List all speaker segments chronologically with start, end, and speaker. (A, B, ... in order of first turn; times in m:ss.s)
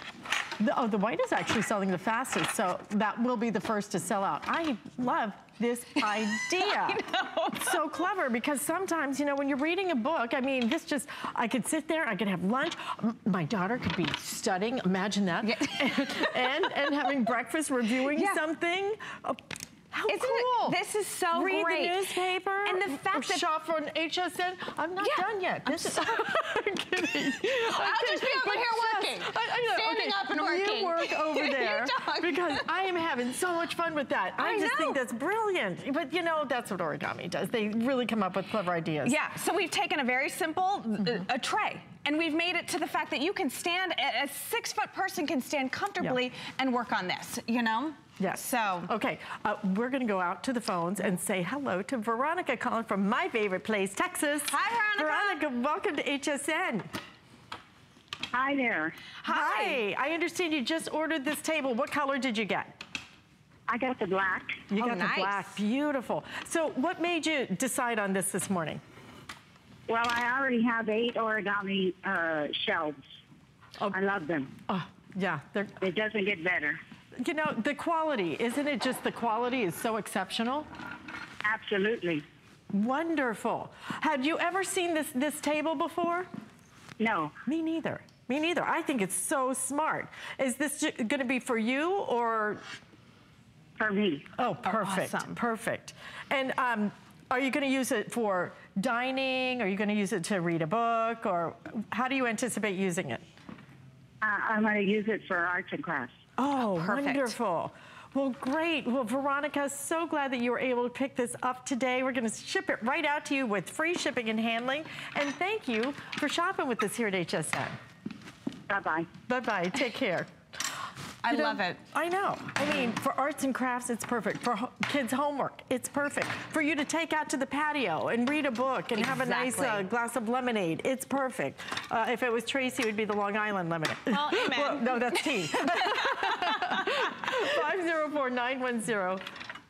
0:00.6-0:20.8 A
0:06.4-0:07.8 B
0:15.4-0:16.6 B
0:18.1-0:18.4 B
0:20.1-0:22.1 B
0:21.3-0:39.2 A
0:22.6-0:23.5 B
0:25.0-0:26.2 B
0:27.5-0:32.6 B
0:34.4-0:35.0 B
0:39.0-0:48.9 B
0:48.2-0:56.9 A
0:54.5-0:55.4 B
0:58.3-0:58.9 C
0:59.2-0:59.8 B
0:59.3-1:02.8 A
1:03.7-1:04.7 C
1:04.7-1:08.8 A
1:04.7-1:05.5 B
1:09.9-1:13.0 C
1:13.9-1:14.5 C
1:14.7-1:15.7 A
1:15.8-1:16.8 C
1:17.2-1:20.7 A
1:21.4-1:22.2 C
1:22.7-1:26.3 A
1:27.0-1:27.3 C
1:27.5-1:32.6 A
1:33.8-1:34.2 C
1:34.4-1:43.2 A
1:34.6-1:35.4 B
1:44.2-1:46.2 C
1:46.4-1:57.8 A
1:46.6-1:47.4 B
1:58.7-1:59.1 C
1:59.3-2:00.3 A
2:01.2-2:01.8 B
2:01.3-2:19.2 A
2:09.0-2:09.9 B
2:14.1-2:16.8 B